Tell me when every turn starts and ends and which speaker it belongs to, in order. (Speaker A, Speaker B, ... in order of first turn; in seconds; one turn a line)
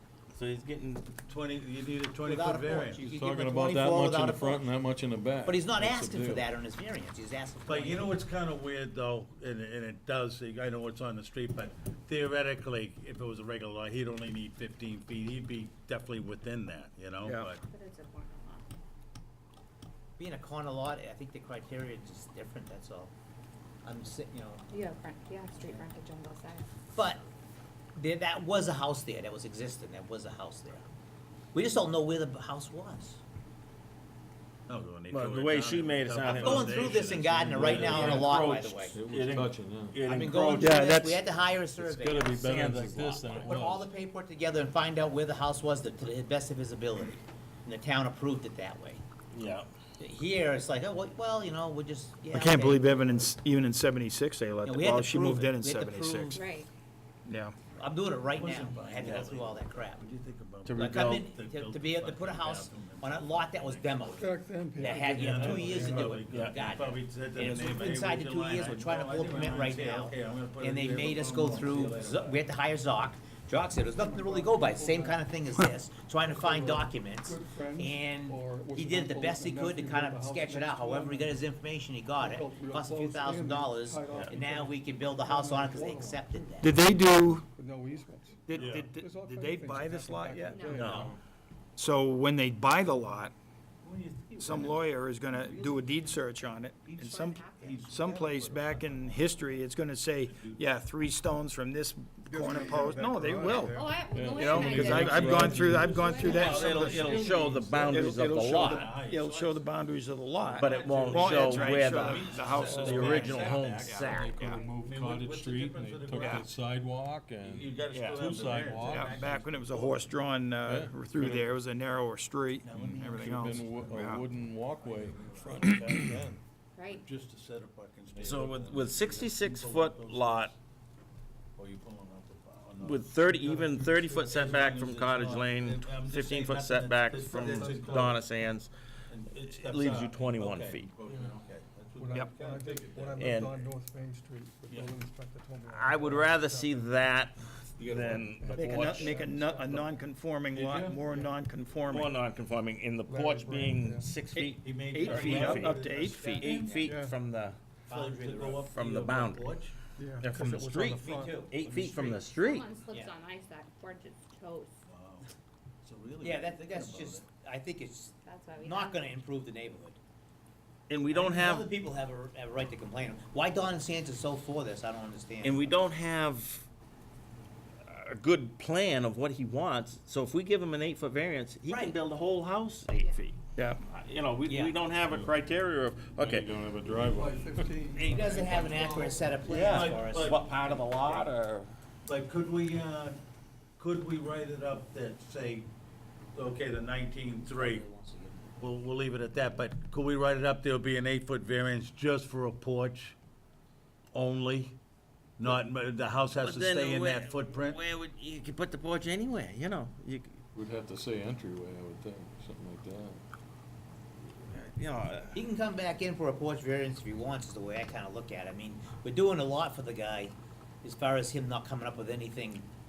Speaker A: 0.3-1.1
Speaker B: 1.3-3.0
Speaker C: 2.2-4.7
Speaker D: 3.0-6.5
Speaker C: 5.5-8.2
Speaker B: 7.7-17.6
Speaker E: 17.2-17.5
Speaker F: 17.6-18.7
Speaker C: 20.2-23.1
Speaker C: 23.9-24.7
Speaker F: 24.7-26.7
Speaker C: 26.9-27.2
Speaker C: 28.0-30.9
Speaker C: 31.5-33.2
Speaker B: 34.7-38.4
Speaker A: 35.1-37.1
Speaker C: 36.4-39.0
Speaker D: 37.6-38.4
Speaker A: 37.8-41.1
Speaker D: 38.9-40.0
Speaker C: 40.0-42.4
Speaker E: 40.6-41.2
Speaker D: 41.8-43.9
Speaker A: 42.3-43.5
Speaker C: 43.3-49.0
Speaker A: 49.3-49.7
Speaker C: 50.0-53.3
Speaker E: 52.3-56.4
Speaker C: 54.6-56.5
Speaker F: 56.3-56.7
Speaker E: 57.3-57.5
Speaker C: 57.8-60.0
Speaker B: 58.3-64.3
Speaker A: 60.6-61.3
Speaker C: 60.8-86.7
Speaker G: 64.2-66.2
Speaker B: 64.9-72.4
Speaker A: 66.3-66.6
Speaker G: 74.0-75.2
Speaker G: 76.3-81.4
Speaker G: 82.2-86.5
Speaker E: 86.6-87.5
Speaker G: 87.6-91.2
Speaker E: 88.5-90.7
Speaker B: 88.6-88.9
Speaker F: 90.5-90.9
Speaker A: 90.7-91.1
Speaker B: 90.7-91.1
Speaker E: 91.8-93.3
Speaker B: 93.8-95.8
Speaker E: 94.4-103.8
Speaker B: 96.8-99.6
Speaker F: 97.0-97.9
Speaker B: 100.3-100.6
Speaker G: 102.3-104.0
Speaker F: 103.6-107.6
Speaker D: 104.1-108.0
Speaker E: 104.3-106.8
Speaker A: 106.2-108.9
Speaker B: 106.4-109.6
Speaker E: 107.9-114.6
Speaker A: 110.6-114.4
Speaker B: 110.6-116.5
Speaker D: 112.6-113.1
Speaker D: 114.1-119.3
Speaker E: 116.1-116.5
Speaker B: 117.4-120.2
Speaker A: 117.9-118.4
Speaker E: 118.8-124.2
Speaker D: 120.7-121.5
Speaker B: 122.6-125.8
Speaker D: 122.8-126.4
Speaker E: 125.6-126.1
Speaker F: 126.8-127.0
Speaker B: 126.9-130.6
Speaker A: 128.2-130.5
Speaker B: 131.6-138.2
Speaker A: 132.8-138.7
Speaker G: 137.1-138.1
Speaker B: 139.1-143.5
Speaker A: 139.4-140.9
Speaker G: 142.0-146.9
Speaker A: 143.2-143.6
Speaker A: 145.6-149.2
Speaker D: 147.9-148.3
Speaker G: 148.4-150.0
Speaker E: 148.4-152.2
Speaker B: 150.5-151.0
Speaker A: 151.9-155.8
Speaker G: 153.1-154.1
Speaker E: 154.3-156.5
Speaker B: 154.6-156.7
Speaker C: 156.2-157.0
Speaker A: 156.4-157.6
Speaker G: 156.8-157.2
Speaker C: 157.9-158.7
Speaker B: 157.9-159.8
Speaker A: 158.7-159.5
Speaker G: 160.0-161.4
Speaker A: 160.2-162.7
Speaker C: 161.0-162.2
Speaker F: 162.3-164.8
Speaker B: 164.9-165.3
Speaker B: 165.8-167.2
Speaker C: 166.2-170.0
Speaker F: 168.2-169.1
Speaker A: 170.9-171.7
Speaker C: 171.1-175.7
Speaker A: 175.4-176.7
Speaker A: 177.9-186.6
Speaker C: 181.7-182.0
Speaker C: 184.5-184.8
Speaker D: 185.0-185.3
Speaker D: 186.2-187.6
Speaker G: 187.0-189.6
Speaker C: 188.0-191.3
Speaker A: 188.3-191.7
Speaker B: 189.6-190.4
Speaker B: 192.1-193.2
Speaker B: 193.8-195.7
Speaker B: 196.3-197.8
Speaker C: 197.4-198.7
Speaker B: 198.6-203.2
Speaker B: 204.1-204.8
Speaker B: 205.4-207.8
Speaker A: 206.4-210.4
Speaker D: 210.6-213.2
Speaker A: 214.3-215.4
Speaker C: 215.3-222.7